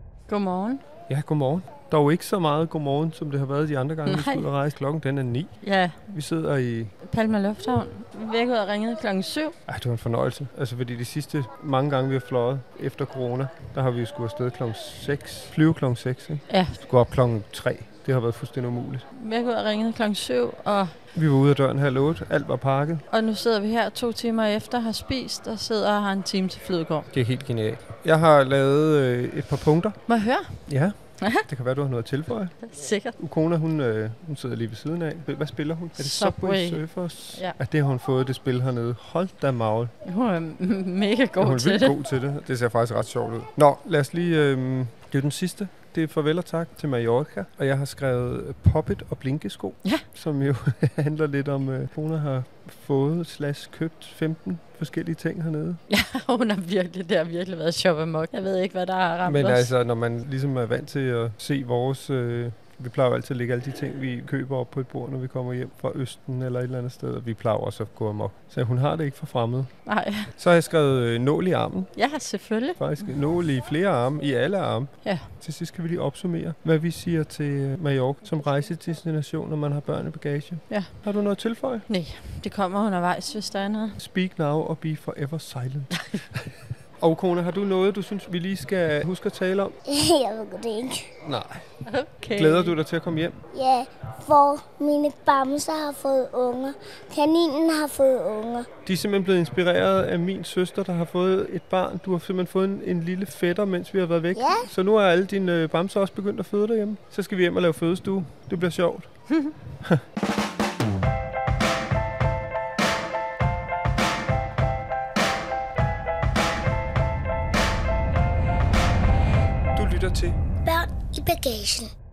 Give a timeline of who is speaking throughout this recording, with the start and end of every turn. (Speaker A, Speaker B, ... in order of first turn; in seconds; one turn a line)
Speaker A: 0.3-0.8
Speaker B: 1.1-6.9
Speaker A: 4.0-4.5
Speaker A: 5.6-6.0
Speaker A: 7.0-9.6
Speaker B: 9.7-19.1
Speaker A: 16.5-16.8
Speaker A: 19.1-20.9
Speaker B: 21.1-23.0
Speaker A: 23.1-27.1
Speaker B: 27.1-30.1
Speaker A: 30.1-31.4
Speaker B: 30.6-39.9
Speaker A: 32.6-33.1
Speaker A: 35.9-37.5
Speaker A: 40.0-41.9
Speaker B: 41.4-55.8
Speaker A: 55.9-59.7
Speaker B: 59.2-69.7
Speaker A: 69.8-70.3
Speaker B: 70.2-72.1
Speaker A: 72.0-72.9
Speaker B: 72.8-81.8
Speaker A: 75.0-75.3
Speaker A: 80.7-81.0
Speaker A: 81.8-84.0
Speaker B: 84.0-89.8
Speaker C: 89.9-91.1
Speaker B: 91.2-91.7
Speaker A: 91.8-92.8
Speaker B: 92.3-93.4
Speaker C: 93.5-98.7
Speaker B: 98.8-110.0
Speaker C: 104.3-104.7
Speaker B: 119.7-120.4
Speaker C: 120.6-121.9